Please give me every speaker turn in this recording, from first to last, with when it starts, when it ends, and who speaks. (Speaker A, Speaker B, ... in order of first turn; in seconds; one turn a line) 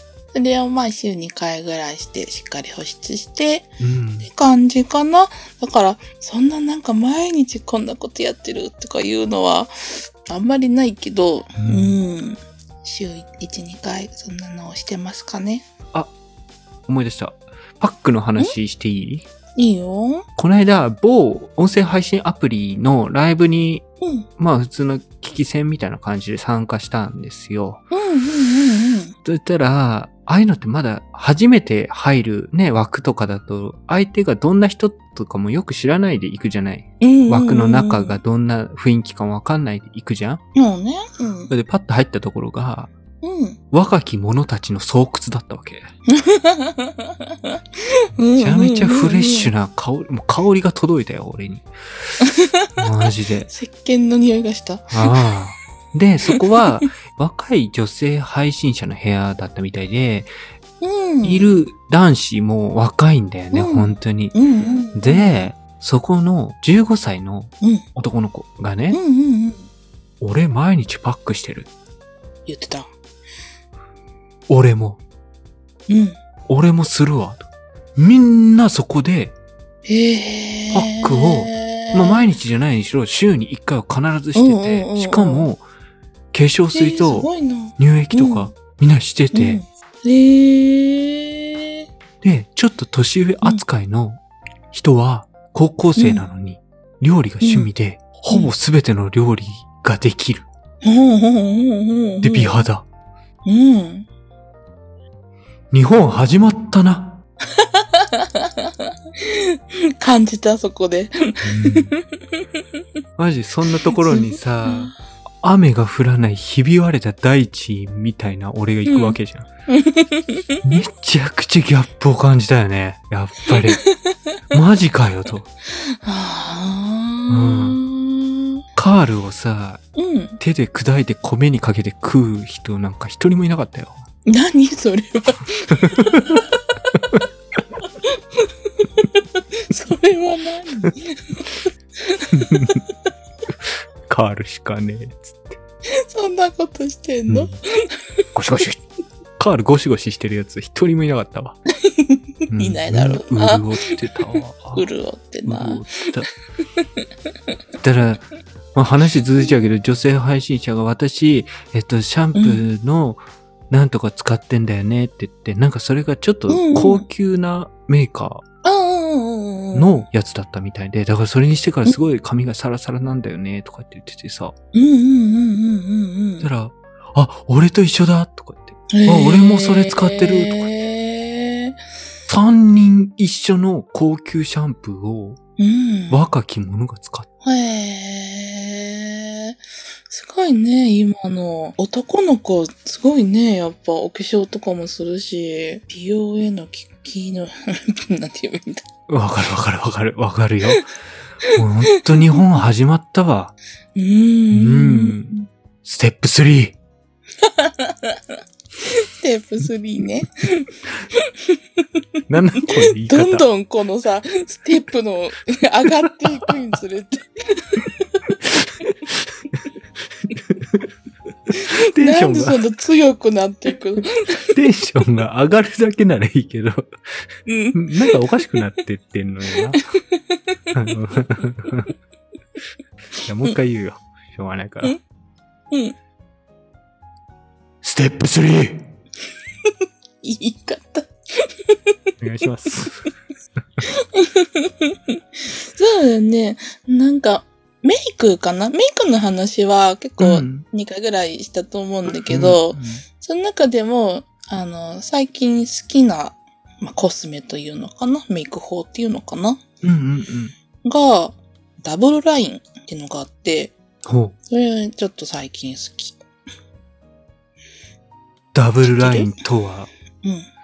Speaker A: 0.3-15.7
Speaker B: 3.8-4.3
Speaker B: 11.6-11.9
Speaker B: 16.9-19.2
Speaker A: 19.6-20.3
Speaker B: 20.4-23.9
Speaker A: 24.0-24.3
Speaker B: 24.4-27.8
Speaker A: 27.9-29.1
Speaker B: 29.2-40.4
Speaker A: 37.0-38.2
Speaker A: 40.5-41.5
Speaker B: 41.5-42.9
Speaker A: 43.2-43.6
Speaker B: 43.7-45.9
Speaker A: 46.1-49.5
Speaker B: 48.3-52.2
Speaker A: 52.2-52.8
Speaker B: 52.8-53.5
Speaker A: 53.5-55.3
Speaker B: 54.9-60.3
Speaker A: 56.3-56.9
Speaker A: 60.8-61.6
Speaker B: 61.2-64.4
Speaker A: 63.5-65.5
Speaker B: 64.9-69.0
Speaker A: 67.6-67.8
Speaker A: 68.9-69.7
Speaker B: 70.2-71.7
Speaker A: 72.5-72.9
Speaker B: 74.5-75.0
Speaker A: 75.9-76.2
Speaker B: 76.5-79.3
Speaker A: 79.8-82.3
Speaker B: 80.7-85.6
Speaker A: 84.3-85.5
Speaker B: 86.3-89.6
Speaker A: 86.7-88.5
Speaker A: 89.3-91.8
Speaker B: 92.2-94.2
Speaker B: 94.7-100.5
Speaker A: 96.0-96.3
Speaker A: 97.4-97.7
Speaker A: 100.8-102.7
Speaker B: 102.2-102.8
Speaker A: 103.4-104.1
Speaker B: 105.7-107.2
Speaker A: 107.5-112.5
Speaker B: 111.4-111.9
Speaker B: 113.2-119.5
Speaker A: 113.7-114.9
Speaker A: 118.8-120.8
Speaker B: 120.6-123.8
Speaker A: 123.5-124.4
Speaker B: 124.5-125.5
Speaker A: 125.8-128.6
Speaker B: 127.3-127.8
Speaker B: 128.8-129.8
Speaker A: 129.9-130.4
Speaker B: 130.4-134.0
Speaker A: 134.2-136.4
Speaker B: 135.8-136.4
Speaker A: 138.0-142.8
Speaker B: 142.3-142.8
Speaker B: 143.6-145.6
Speaker A: 145.9-148.1
Speaker B: 147.3-147.6
Speaker B: 148.3-148.8
Speaker B: 149.4-151.6
Speaker A: 151.8-155.9
Speaker B: 152.5-154.8
Speaker B: 155.4-156.3
Speaker B: 157.8-168.4
Speaker A: 162.3-162.6
Speaker A: 166.5-167.1
Speaker A: 168.6-170.1
Speaker B: 169.7-174.5
Speaker A: 174.7-176.5
Speaker B: 176.4-180.6
Speaker A: 178.9-181.7
Speaker B: 182.3-185.4
Speaker A: 185.6-186.2
Speaker B: 186.1-187.3
Speaker A: 187.4-198.8
Speaker B: 199.1-200.9
Speaker B: 201.4-203.5
Speaker A: 201.5-202.6
Speaker A: 203.9-205.4
Speaker B: 204.5-206.8
Speaker A: 207.4-208.2
Speaker A: 208.8-211.8
Speaker B: 212.3-213.5
Speaker A: 212.6-218.1
Speaker B: 218.4-219.6
Speaker B: 220.3-220.9
Speaker A: 221.5-224.5
Speaker B: 221.7-222.6
Speaker B: 224.4-229.8
Speaker A: 227.4-228.6
Speaker A: 229.6-230.8
Speaker B: 230.7-231.9
Speaker B: 233.2-235.0
Speaker A: 235.7-235.9
Speaker B: 237.8-238.8
Speaker A: 240.2-241.9
Speaker B: 242.2-243.1
Speaker A: 243.8-259.6
Speaker B: 250.2-250.6
Speaker B: 252.3-253.0
Speaker B: 259.8-260.5
Speaker A: 260.8-263.8
Speaker B: 264.0-264.3
Speaker A: 264.5-266.2
Speaker B: 268.5-269.9
Speaker A: 268.8-269.3
Speaker A: 270.2-270.5